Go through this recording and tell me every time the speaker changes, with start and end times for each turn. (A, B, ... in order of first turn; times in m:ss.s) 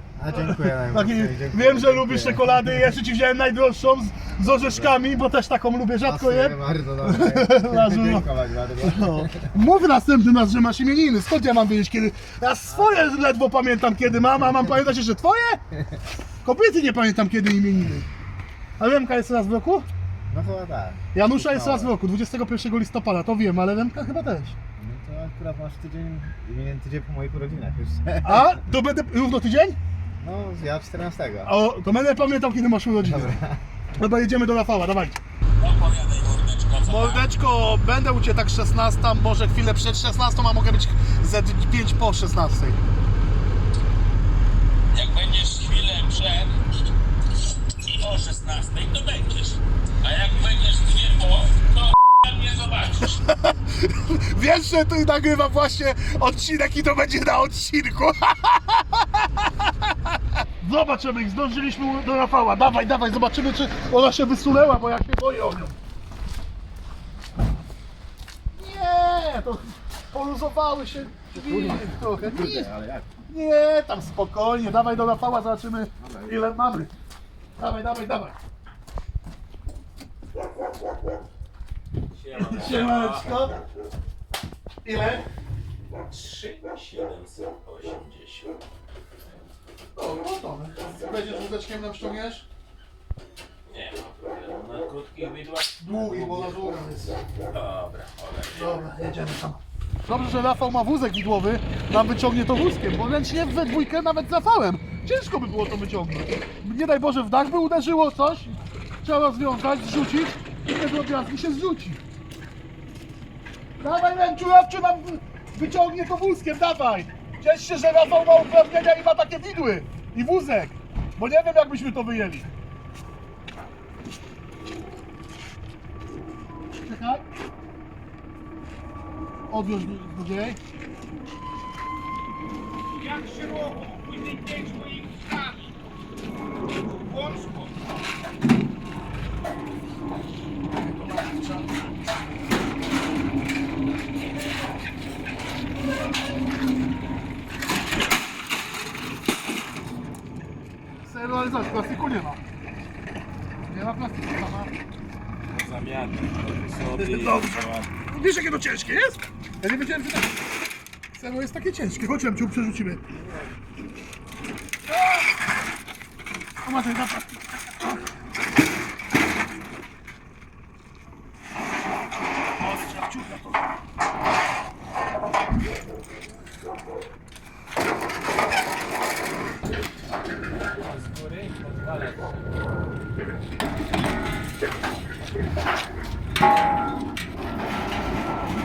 0:00.2-0:02.5 A
0:00.3-0:15.6 B
0:04.5-0:05.0 A
0:06.0-0:09.5 A
0:12.7-0:13.1 A
0:16.4-0:18.1 B
0:18.8-0:19.8 B
0:20.3-0:21.9 A
0:21.1-0:24.6 B
0:24.8-0:28.6 A
0:28.2-0:29.8 B
0:30.2-0:31.5 A
0:31.4-0:33.4 B
0:33.0-0:33.6 A
0:33.9-0:35.2 B
0:35.6-0:37.3 C
0:36.8-0:42.8 B
0:44.9-0:46.6 C
0:47.7-0:53.2 C
0:53.2-0:59.0 B
1:00.6-1:05.8 B
1:08.5-1:12.7 B
1:11.3-1:13.1 A
1:13.3-1:16.9 B
1:16.0-1:16.3 A
1:17.6-1:18.4 B
1:22.1-1:23.4 C
1:22.3-1:23.6 B
1:24.8-1:25.2 B
1:26.1-1:28.6 C
1:30.0-1:32.4 B
1:33.7-1:36.6 C
1:35.8-1:37.2 B
1:37.5-1:38.8 C
1:38.5-1:52.0 B
1:53.8-2:02.5 B
2:06.8-2:07.2 B
2:09.5-2:10.6 B
2:13.0-2:15.6 C
2:16.9-2:17.7 C
2:20.9-2:21.7 B
2:31.0-2:32.4 B
2:33.7-2:34.7 B
2:35.5-2:37.9 C
2:36.9-2:40.3 B
2:41.1-2:43.0 B
2:44.9-2:45.2 B
2:46.6-2:48.0 B
2:52.6-2:53.6 B
3:00.8-3:02.4 C